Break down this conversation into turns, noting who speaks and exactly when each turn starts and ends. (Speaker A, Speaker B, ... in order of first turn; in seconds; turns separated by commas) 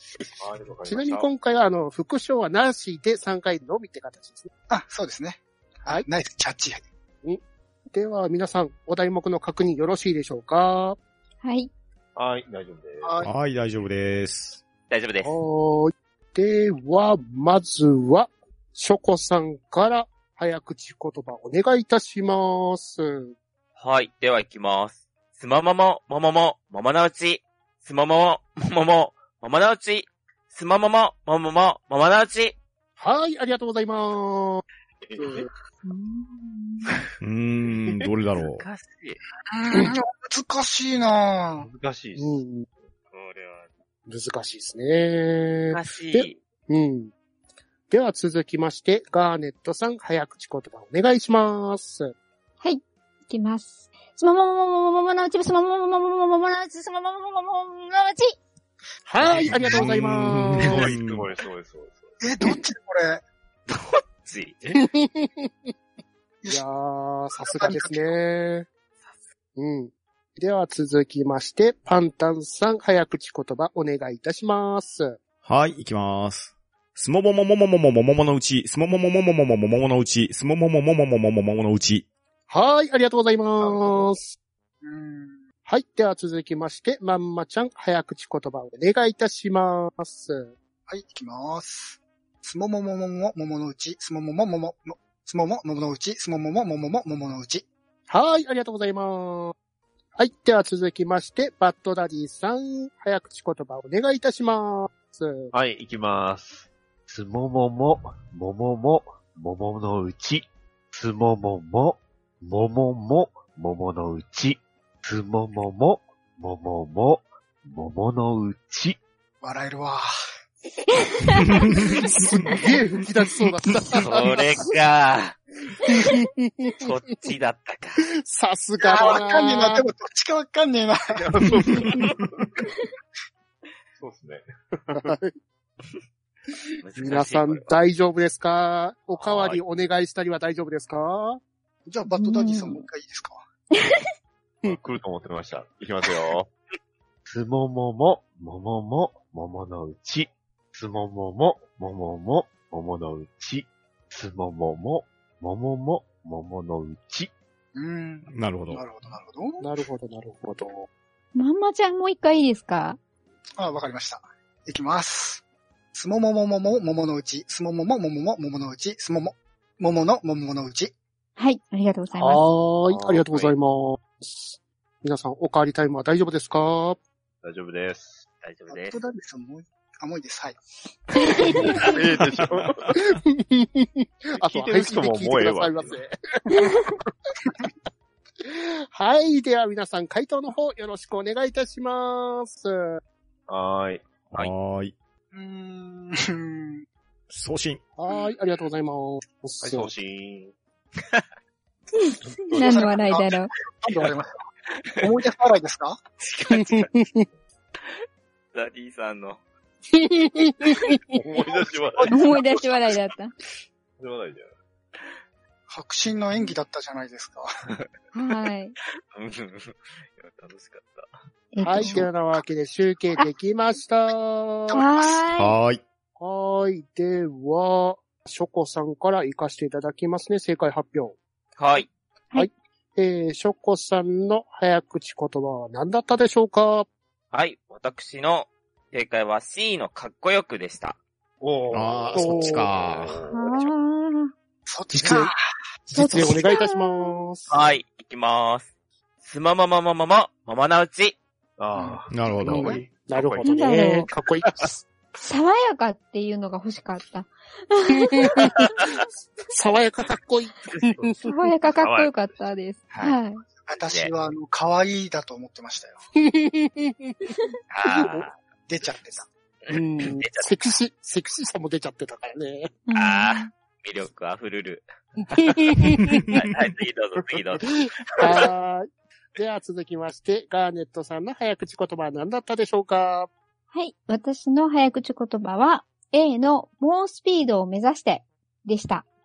Speaker A: 0.4-1.3, Speaker B: 0.9-4.5, Speaker C: 4.7-6.9, Speaker B: 7.9-11.0, Speaker D: 11.4-11.7, Speaker A: 12.2-13.3, Speaker C: 13.0-13.3, Speaker E: 13.2-14.6, Speaker F: 14.9-15.4, Speaker B: 15.2-23.4, Speaker F: 23.8-32.6, Speaker B: 33.0-34.6, Speaker B: 35.2-35.5, Speaker D: 35.8-36.9, Speaker E: 37.2-38.6, Speaker F: 38.4-39.2, Speaker C: 39.5-41.7, Speaker A: 41.6-42.4, Speaker B: 42.2-42.7, Speaker F: 43.1-43.7, Speaker B: 44.1-47.1, Speaker F: 45.7-46.4, Speaker B: 47.9-52.1, Speaker D: 52.6-58.4, Speaker B: 59.1-60.9, Speaker E: 59.3-61.3, Speaker A: 59.3-59.9, Speaker A: 60.6-62.2, Speaker C: 62.2-63.2, Speaker F: 63.7-64.7, Speaker B: 64.8-65.5, Speaker B: 66.5-68.7, Speaker C: 67.4-68.2, Speaker B: 69.6-75.2, Speaker E: 75.5-82.1, Speaker B: 82.5-84.3, Speaker A: 83.6-84.1, Speaker C: 84.8-85.4, Speaker B: 85.7-90.5, Speaker C: 90.9-97.7, Speaker B: 98.1-99.5, Speaker B: 100.2-105.5, Speaker A: 105.5-119.0, Speaker C: 119.4-120.0, Speaker D: 121.3-121.6, Speaker B: 122.0-124.4, Speaker F: 123.9-125.4, Speaker B: 125.8-126.8, Speaker F: 126.7-128.1, Speaker B: 128.2-129.8, Speaker C: 128.8-131.3, Speaker A: 131.1-132.5, Speaker B: 131.6-132.0, Speaker A: 134.0-135.2, Speaker B: 134.9-135.3, Speaker F: 136.8-137.8, Speaker B: 137.0-141.4, Speaker A: 139.3-139.6, Speaker C: 141.9-143.4, Speaker D: 142.1-142.8, Speaker D: 143.7-144.1, Speaker A: 144.6-146.5, Speaker A: 147.3-157.3, Speaker C: 157.8-159.7, Speaker E: 158.3-158.8, Speaker B: 159.6-160.9, Speaker D: 161.3-163.0, Speaker C: 163.6-165.4, Speaker C: 165.9-170.9, Speaker D: 171.4-172.4, Speaker B: 172.2-177.0, Speaker A: 172.9-173.5, Speaker A: 177.4-178.2, Speaker F: 178.4-179.0, Speaker C: 178.7-180.6, Speaker B: 181.4-181.7, Speaker A: 181.8-183.0, Speaker B: 183.0-186.9, Speaker A: 184.4-186.0, Speaker B: 188.4-193.0, Speaker A: 193.5-194.3, Speaker E: 194.3-194.9, Speaker C: 195.3-196.8, Speaker E: 197.3-197.8, Speaker B: 198.0-199.9, Speaker A: 199.6-200.5, Speaker D: 202.0-203.5, Speaker A: 202.2-202.9, Speaker C: 202.6-204.4, Speaker F: 204.8-205.1, Speaker C: 205.0-206.0, Speaker F: 206.2-206.9, Speaker B: 206.5-207.3, Speaker F: 208.5-209.4, Speaker B: 209.9-211.0, Speaker A: 211.1-212.6, Speaker D: 212.1-213.3, Speaker A: 214.0-214.5, Speaker C: 215.7-217.5, Speaker D: 218.1-218.8, Speaker F: 219.1-221.1, Speaker D: 221.5-222.1, Speaker B: 221.6-224.7, Speaker C: 224.7-225.2, Speaker D: 224.7-225.5, Speaker E: 225.4-225.8, Speaker B: 226.2-231.2, Speaker F: 231.6-231.9, Speaker B: 232.3-236.9, Speaker F: 237.3-241.0, Speaker A: 241.4-243.7, Speaker E: 241.7-243.2, Speaker B: 242.1-242.7, Speaker D: 243.3-244.3, Speaker C: 244.7-245.4, Speaker B: 244.9-245.3, Speaker B: 245.9-247.5, Speaker D: 245.9-247.2, Speaker F: 247.5-248.7, Speaker F: 249.2-251.2, Speaker A: 251.6-253.8, Speaker E: 252.1-252.8, Speaker C: 252.3-252.8, Speaker B: 252.5-254.9, Speaker D: 253.4-254.1, Speaker D: 255.2-258.5, Speaker B: 258.0-258.9, Speaker B: 259.5-261.3, Speaker D: 261.2-263.4, Speaker A: 261.7-262.4, Speaker F: 262.9-263.2, Speaker C: 263.7-266.0, Speaker B: 266.2-267.3, Speaker F: 267.7-268.4, Speaker B: 268.0-268.3, Speaker C: 268.7-269.3, Speaker F: 269.7-270.8, Speaker B: 269.7-272.7, Speaker D: 272.9-273.5, Speaker F: 272.9-278.5, Speaker B: 275.4-276.0, Speaker B: 278.2-283.3, Speaker D: 283.7-289.1